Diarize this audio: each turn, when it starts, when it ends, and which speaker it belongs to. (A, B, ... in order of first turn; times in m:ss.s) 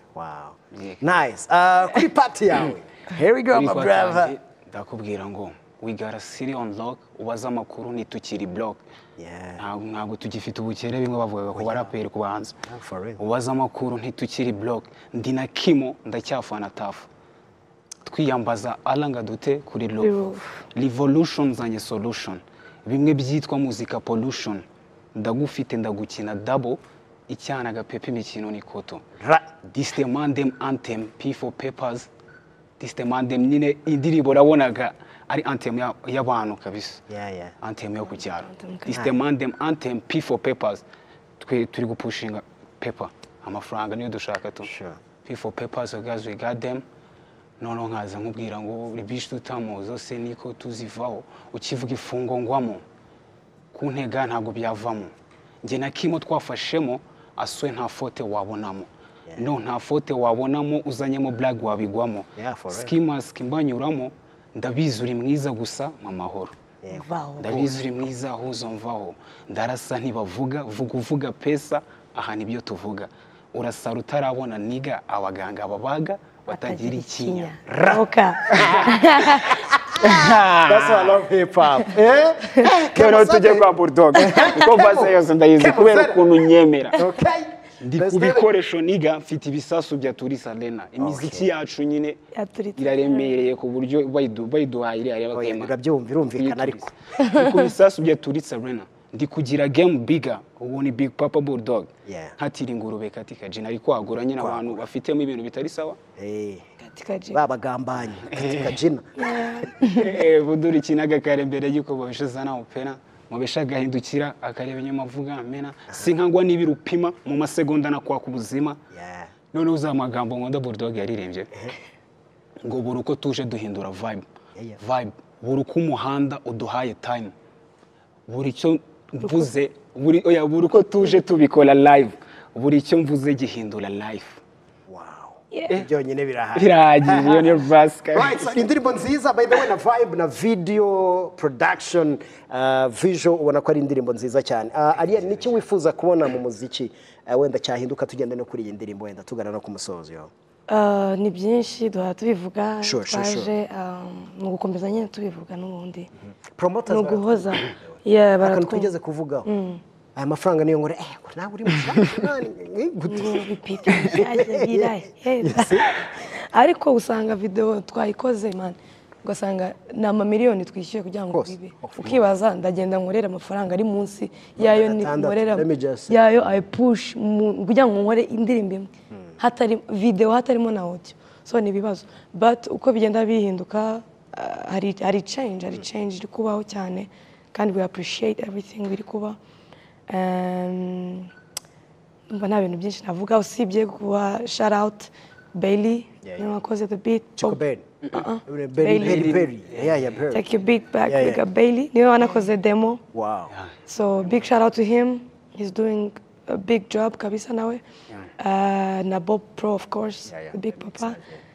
0:00.1-0:04.3 A
0:00.7-0:01.1 B
0:03.5-0:08.8 B
0:09.2-0:09.6 A
0:09.6-0:12.5 B
0:11.5-0:11.9 A
0:12.6-0:13.2 A
0:13.2-0:17.1 B
0:18.0-0:29.0 B
0:20.0-0:20.6 C
0:29.2-0:29.5 A
0:29.6-0:32.1 B
0:32.8-0:37.0 B
0:37.1-0:37.5 A
0:37.6-0:40.8 B
0:38.5-0:39.0 C
0:41.4-0:44.7 B
0:44.6-0:45.0 A
0:45.2-0:46.8 B
0:47.6-0:52.8 B
0:53.7-1:06.5 B
1:02.4-1:02.9 A
1:06.8-1:07.8 A
1:06.9-1:07.6 C
1:07.4-1:19.5 B
1:16.5-1:19.6 C
1:18.5-1:26.2 A
1:20.0-1:21.2 B
1:22.9-1:27.0 B
1:26.9-1:28.5 A
1:27.8-1:32.2 B
1:31.0-1:31.5 A
1:32.3-1:33.4 C
1:32.8-1:35.7 B
1:35.3-1:36.9 A
1:36.4-1:46.0 B
1:37.2-1:37.6 C
1:42.0-1:42.4 A
1:44.4-1:44.8 A
1:46.2-1:46.6 A
1:46.8-1:47.4 C
1:47.3-1:49.1 A
1:48.1-1:48.8 B
1:49.2-1:50.2 C
1:49.9-1:58.8 B
1:58.9-1:59.3 A
1:59.5-2:01.6 B
2:02.6-2:04.2 B
2:04.8-2:07.3 B
2:08.3-2:14.4 B
2:14.9-2:17.6 A
2:15.5-2:15.8 C
2:16.5-2:18.7 B
2:18.1-2:30.3 A
2:30.7-2:36.1 C
2:32.8-2:33.5 A
2:36.5-2:39.5 A
2:36.9-2:38.9 C
2:39.4-2:39.8 C
2:40.2-2:46.0 A
2:43.1-3:09.4 C
2:51.3-2:52.2 A
2:54.6-2:56.6 A
3:10.1-3:11.3 C
3:12.3-3:19.5 C
3:16.2-3:16.5 A
3:17.4-3:17.8 A
3:18.4-3:20.4 A
3:18.9-3:20.2 B
3:20.3-3:23.0 C
3:21.0-3:21.4 A
3:23.1-3:23.5 A
3:23.8-3:27.8 C
3:28.4-3:31.2 C
3:30.2-3:31.4 A